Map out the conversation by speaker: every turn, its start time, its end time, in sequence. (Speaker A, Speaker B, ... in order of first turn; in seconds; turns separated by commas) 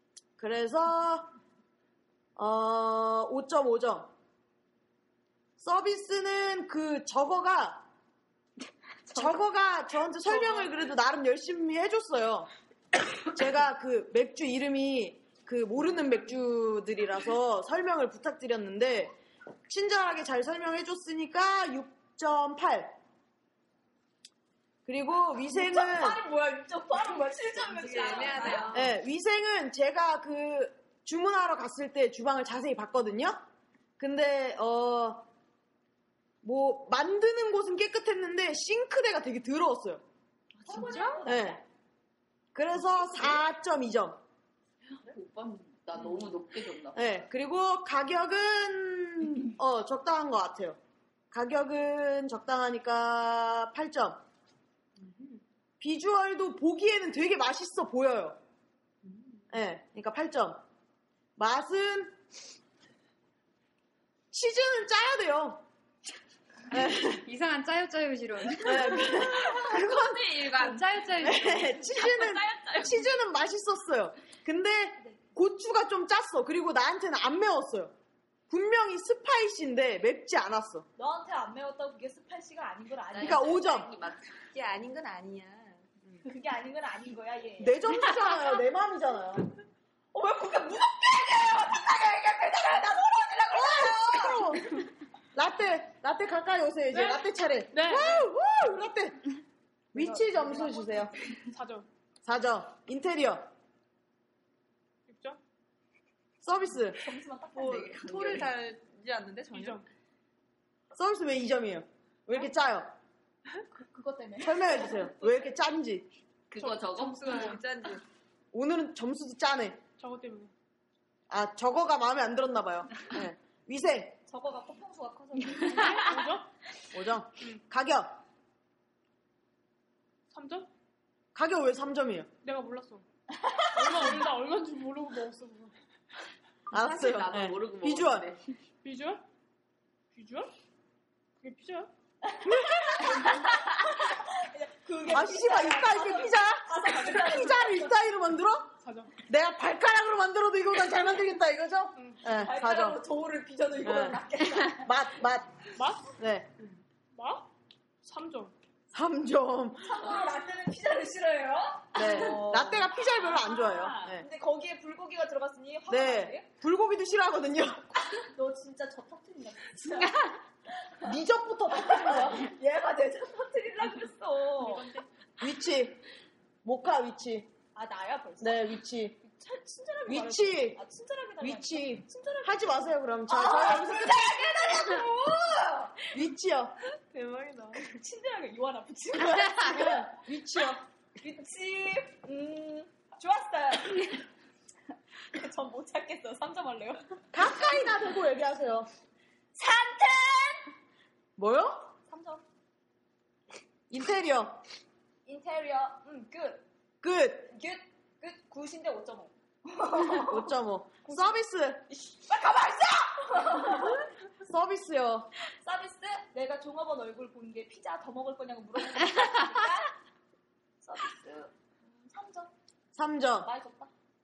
Speaker A: 0.4-1.3, Speaker A: 2.4-4.1, Speaker A: 5.6-7.8, Speaker A: 9.1-12.5, Speaker A: 13.2-19.1, Speaker A: 19.7-22.9, Speaker A: 24.9-26.2, Speaker B: 25.5-28.8, Speaker C: 27.6-28.9, Speaker A: 28.7-33.4, Speaker A: 34.0-35.2, Speaker A: 36.4-40.0, Speaker B: 40.6-41.6, Speaker A: 41.2-41.6, Speaker A: 42.5-44.2, Speaker D: 45.0-47.0, Speaker A: 46.9-50.8, Speaker A: 51.3-54.2, Speaker A: 55.8-58.4, Speaker A: 59.5-60.6, Speaker A: 61.4-62.2, Speaker A: 64.3-65.6, Speaker A: 66.7-67.3, Speaker E: 67.1-69.2, Speaker A: 68.6-70.3, Speaker D: 69.5-70.9, Speaker E: 70.4-71.8, Speaker A: 71.2-77.9, Speaker D: 72.1-72.7, Speaker A: 78.5-80.9, Speaker B: 81.0-83.8, Speaker D: 83.1-84.4, Speaker A: 83.2-83.9, Speaker C: 84.5-85.8, Speaker B: 86.2-88.1, Speaker A: 87.6-89.5, Speaker B: 90.1-94.7, Speaker A: 93.5-94.8, Speaker A: 95.3-99.3, Speaker F: 96.9-98.3, Speaker A: 99.9-101.1, Speaker B: 100.0-101.0, Speaker F: 101.4-101.9, Speaker A: 102.2-103.5, Speaker F: 105.1-105.4, Speaker A: 106.4-107.0, Speaker B: 106.9-108.4, Speaker C: 107.5-109.8, Speaker D: 107.7-108.5, Speaker F: 109.5-109.8, Speaker A: 110.9-112.9, Speaker B: 113.7-115.2, Speaker A: 114.4-116.1, Speaker D: 116.5-117.6, Speaker F: 116.6-117.6, Speaker C: 117.0-118.0, Speaker A: 118.5-119.8, Speaker F: 120.0-120.5, Speaker A: 121.3-124.2, Speaker B: 124.3-126.2, Speaker F: 125.8-126.5, Speaker A: 126.9-128.2, Speaker F: 130.3-130.7, Speaker A: 131.3-132.3, Speaker F: 132.4-133.0, Speaker F: 133.7-135.7, Speaker A: 136.7-138.3, Speaker D: 136.7-138.5, Speaker F: 138.8-139.2, Speaker F: 140.1-140.5, Speaker F: 141.4-141.9, Speaker B: 142.3-147.9, Speaker A: 142.4-143.3, Speaker A: 145.0-148.7, Speaker F: 148.8-149.1, Speaker A: 149.2-153.0, Speaker B: 152.3-154.9, Speaker A: 153.8-155.6, Speaker F: 155.7-156.2, Speaker A: 156.2-156.5, Speaker F: 157.1-157.5, Speaker F: 158.0-158.5, Speaker A: 158.9-160.1, Speaker B: 159.8-166.4, Speaker A: 161.9-164.2, Speaker A: 165.9-168.1, Speaker B: 168.3-171.1, Speaker A: 171.0-172.5, Speaker B: 171.7-175.0, Speaker A: 175.4-176.0, Speaker A: 176.6-177.5, Speaker B: 177.7-186.1, Speaker A: 178.4-179.2, Speaker A: 180.1-180.8, Speaker A: 181.4-184.7, Speaker A: 186.1-186.7, Speaker C: 187.1-187.8, Speaker B: 187.8-190.1, Speaker A: 189.2-190.8, Speaker B: 191.2-194.2, Speaker B: 195.3-197.0, Speaker A: 197.3-198.9, Speaker B: 199.5-200.7, Speaker A: 201.4-201.9, Speaker B: 202.1-202.4, Speaker A: 203.9-204.6, Speaker B: 205.2-206.6, Speaker A: 207.0-207.5, Speaker B: 207.5-210.5, Speaker A: 210.1-211.8, Speaker B: 211.1-211.3, Speaker B: 211.9-214.0, Speaker A: 214.4-215.3, Speaker B: 215.6-219.9, Speaker B: 220.8-222.5, Speaker A: 222.9-223.5, Speaker B: 223.4-223.9